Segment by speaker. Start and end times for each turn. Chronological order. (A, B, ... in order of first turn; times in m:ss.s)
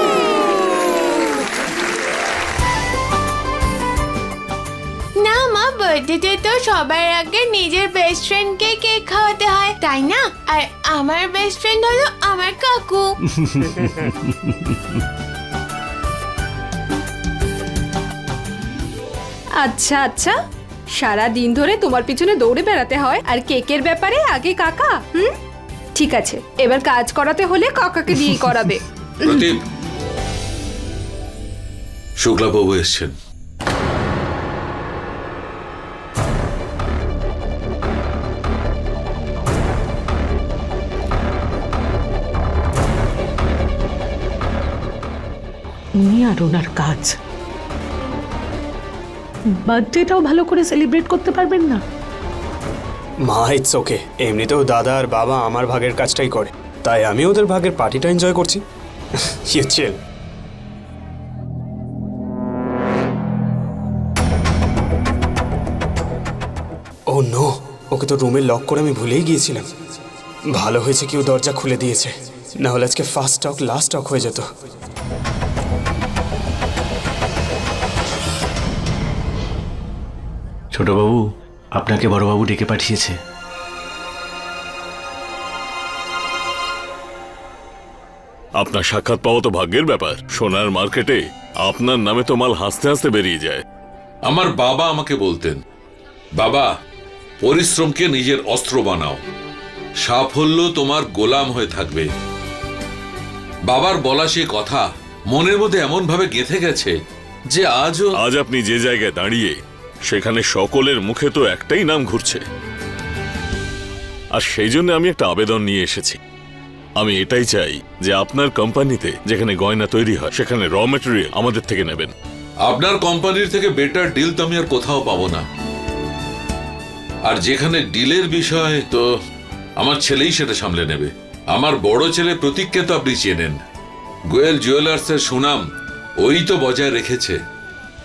0:05.2-0:13.2 A
0:13.4-0:14.7 B
0:19.6-0:20.4 C
0:20.9-0:25.3 C
0:26.0-0:29.5 C
0:29.2-0:29.6 D
0:32.2-0:33.1 D
0:46.0-0:47.1 E
0:49.6-0:51.8 E
0:53.2-0:58.6 F
0:59.3-1:00.0 F
1:07.1-1:09.7 F
1:10.5-1:14.5 F
1:20.7-1:21.2 B
1:21.8-1:23.2 B
1:28.6-1:33.6 G
1:34.2-1:35.6 D
1:36.4-1:36.7 D
1:37.4-1:39.2 D
1:40.0-1:42.1 D
1:43.7-1:46.9 D
1:47.5-1:48.1 D
1:48.2-1:49.6 G
1:50.1-1:52.4 G
1:54.3-1:56.2 G
1:57.0-2:02.1 G
2:02.6-2:05.4 D
2:07.2-2:09.0 D
2:09.8-2:13.6 D
2:14.3-2:15.6 D
2:16.2-2:17.4 D